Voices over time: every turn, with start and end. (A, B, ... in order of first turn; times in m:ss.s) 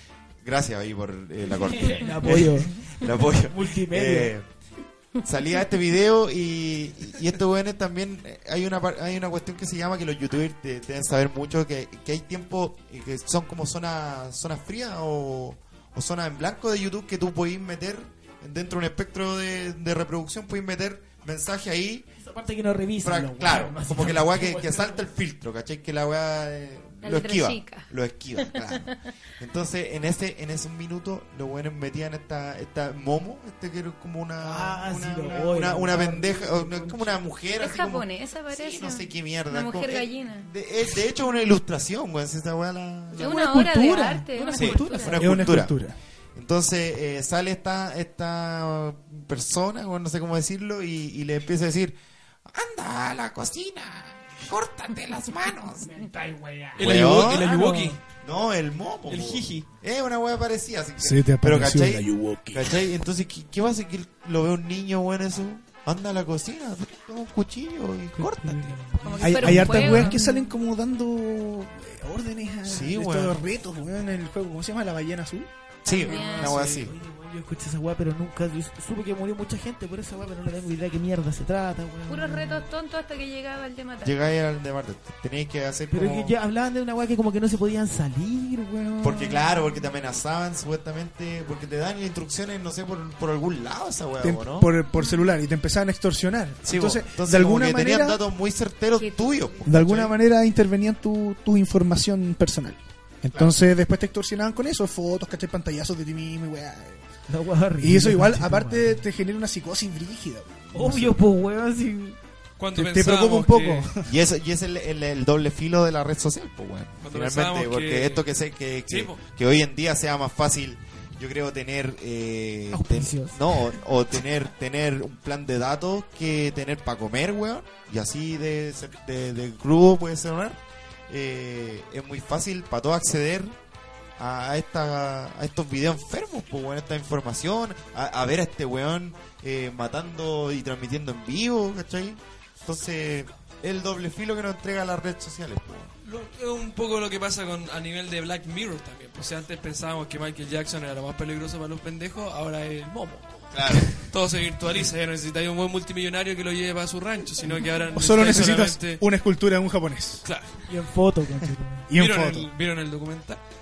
0:00.4-0:04.4 A
0:01.4-0:04.3 B
0:05.2-0:22.1 A
0:22.2-0:25.0 B
0:23.0-0:43.5 A
0:27.0-0:28.9 C
0:34.4-0:37.2 B
0:37.6-0:40.5 C
0:43.2-0:45.4 C
0:43.2-0:45.6 B
0:44.5-0:45.8 A
0:45.2-0:46.0 D
0:46.3-0:55.9 A
0:55.8-0:58.0 B
0:56.8-0:58.0 E
0:56.8-0:57.5 A
0:58.2-1:08.8 A
0:59.1-0:59.6 E
1:01.0-1:02.8 D
1:08.2-1:10.2 B
1:09.0-1:10.4 C
1:09.2-1:15.5 D
1:12.6-1:13.4 A
1:15.8-1:16.9 A
1:15.9-1:16.6 C
1:15.9-1:22.6 B
1:16.4-1:16.8 E
1:22.1-1:24.2 C
1:24.0-1:26.3 A
1:25.9-1:29.5 B
1:29.0-1:34.7 A
1:34.2-1:38.2 D
1:34.9-1:35.4 C
1:36.6-1:40.2 A
1:39.0-1:39.7 C
1:39.6-1:47.0 D
1:43.3-1:43.6 A
1:47.3-1:49.0 B
1:47.8-1:51.2 D
1:50.7-1:52.2 B
1:52.6-1:53.9 E
1:52.7-1:54.1 D
1:54.0-2:13.6 A
1:57.0-1:58.3 E
1:58.9-1:59.2 E
2:02.7-2:03.6 B
2:14.2-2:25.9 A
2:26.0-2:39.0 E
2:33.5-2:34.0 A
2:37.9-2:40.2 D
2:40.2-2:40.6 E
2:40.7-2:41.9 B
2:41.9-2:42.5 D
2:41.9-2:43.4 E